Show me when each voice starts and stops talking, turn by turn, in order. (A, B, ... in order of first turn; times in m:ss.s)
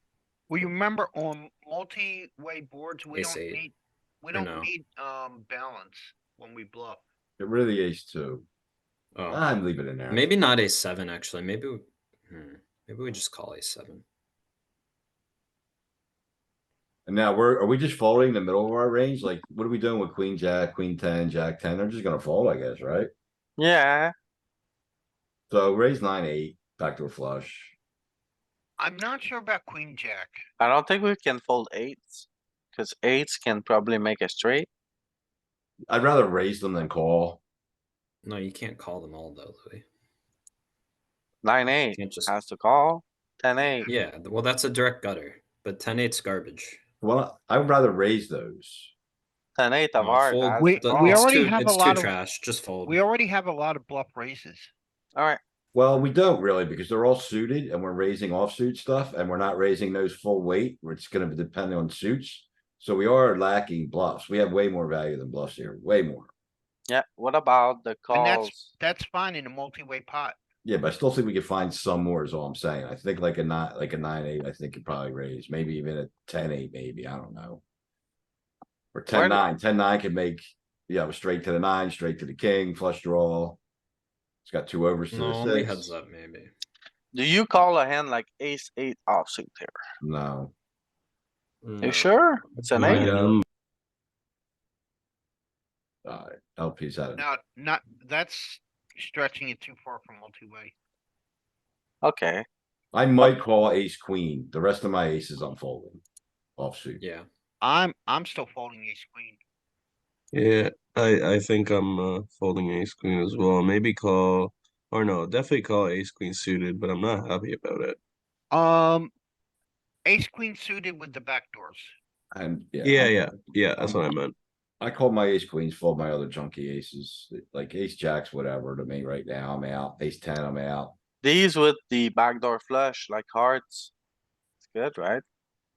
0:00.5-0:07.0 A
0:03.1-0:03.6 B
0:04.3-0:04.7 B
0:07.4-0:08.4 C
0:09.2-0:09.4 B
0:09.3-0:10.3 C
0:10.1-0:14.0 B
0:17.0-0:23.1 C
0:23.6-0:24.1 D
0:25.5-0:27.7 C
0:28.8-0:30.4 A
0:30.6-0:34.7 D
0:35.9-0:37.4 C
0:38.2-0:39.8 B
0:41.4-0:43.9 D
0:41.9-0:42.3 B
0:43.8-0:46.8 B
0:47.0-0:48.9 C
0:49.6-0:51.3 D
0:50.0-0:53.0 B
0:50.6-0:52.2 A
0:52.8-0:54.7 A
0:55.1-0:55.4 D
0:55.7-1:06.3 C
1:06.9-1:08.7 D
1:08.1-1:10.4 A
1:10.6-1:17.6 C
1:18.9-1:23.6 C
1:19.1-1:19.4 D
1:24.4-1:25.9 C
1:25.1-1:26.5 B
1:27.1-1:29.7 D
1:30.0-1:30.5 C
1:31.6-1:33.2 B
1:31.8-1:33.1 D
1:32.8-1:33.4 E
1:33.0-1:33.3 C
1:36.0-1:37.2 C
1:37.2-1:40.7 A
1:42.0-1:42.4 D
1:42.9-1:46.0 C
1:46.6-1:47.0 C
1:47.0-1:47.3 B
1:47.6-1:49.4 A
1:50.3-1:58.0 E
1:58.5-1:59.1 A
2:00.0-2:01.9 A
2:02.3-2:03.2 C
2:02.8-2:04.3 E
2:03.8-2:04.0 C
2:04.8-2:11.0 C
2:11.2-2:13.9 D
2:14.6-2:15.2 D